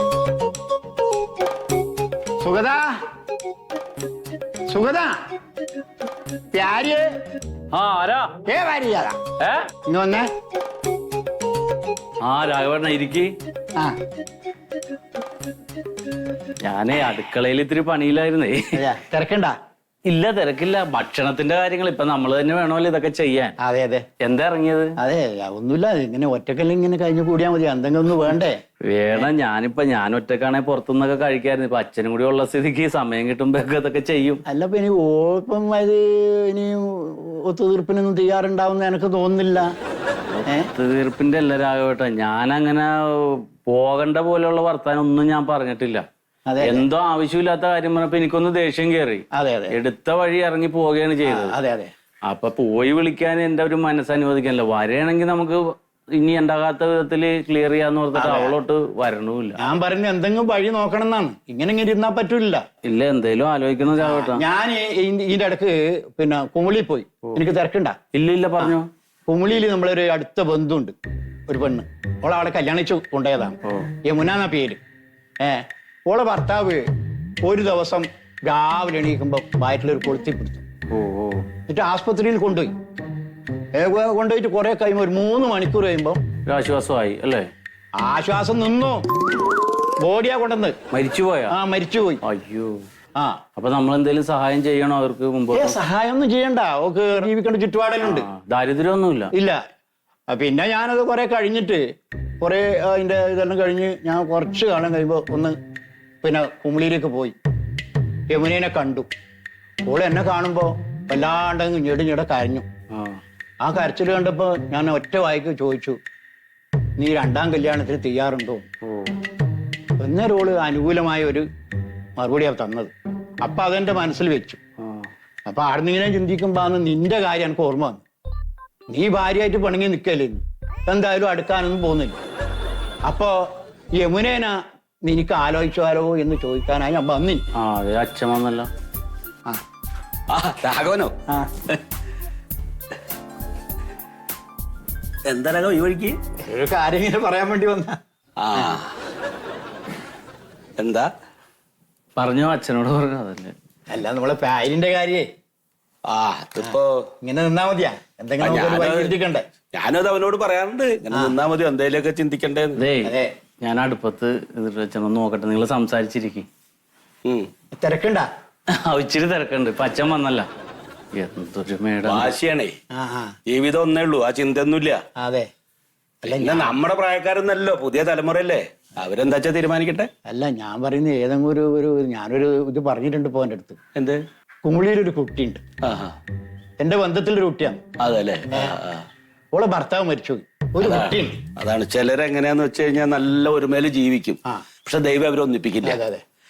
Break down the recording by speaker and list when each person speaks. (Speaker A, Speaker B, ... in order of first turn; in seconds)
Speaker A: 2.4-3.0, 4.7-5.1, 6.5-7.1, 8.5-9.2, 9.9-10.3, 18.7-19.5, 23.6-24.1, 25.0-28.6, 34.5-39.7, 46.5-46.9, 49.3-49.8, 51.2-51.9, 58.1-58.6, 59.6-62.6, 64.0-68.0, 69.3-71.0, 71.5-74.8, 75.4-76.8, 77.4-80.6, 81.7-82.7, 83.7-86.2, 88.0-89.1, 90.0-90.7, 91.5-92.2, 95.5-98.3, 99.3-99.6, 100.3-101.8, 102.4-105.5, 106.2-107.3, 108.3-109.1, 109.8-112.6, 113.6-116.0, 117.0-118.7, 120.0-121.5, 122.2-124.6, 125.5-128.0, 128.9-132.2, 133.1-137.5, 146.4-148.0, 153.9-155.3, 156.6-159.5, 163.0-163.3, 167.8-168.3, 172.9-173.3, 175.2-175.5, 176.2-176.8, 180.2-183.8, 184.6-185.6, 186.8-187.8, 189.5-191.4, 195.8-196.2
Speaker B: 7.7-8.3, 9.4-9.7, 12.2-13.3, 16.6-18.8, 20.1-23.5, 24.2-24.9, 28.9-34.4, 40.3-46.0, 46.6-51.5, 52.3-59.6, 62.8-64.4, 68.1-68.9, 80.9-81.4, 86.4-87.5, 90.9-91.5, 92.2-92.8, 93.5-95.8, 98.0-99.3, 112.9-113.2, 118.8-119.1, 124.8-125.1, 137.6-138.7, 152.2-153.5, 162.8-166.5, 168.8-170.5, 171.1-172.3
Speaker C: 140.3-141.1, 145.3-146.2, 148.4-148.9, 150.8-151.1, 156.1-156.9, 158.4-159.2, 159.7-162.8, 172.1-172.8, 173.5-175.0, 176.3-180.1, 184.0-184.2, 185.8-186.1, 188.0-189.1, 190.8-196.0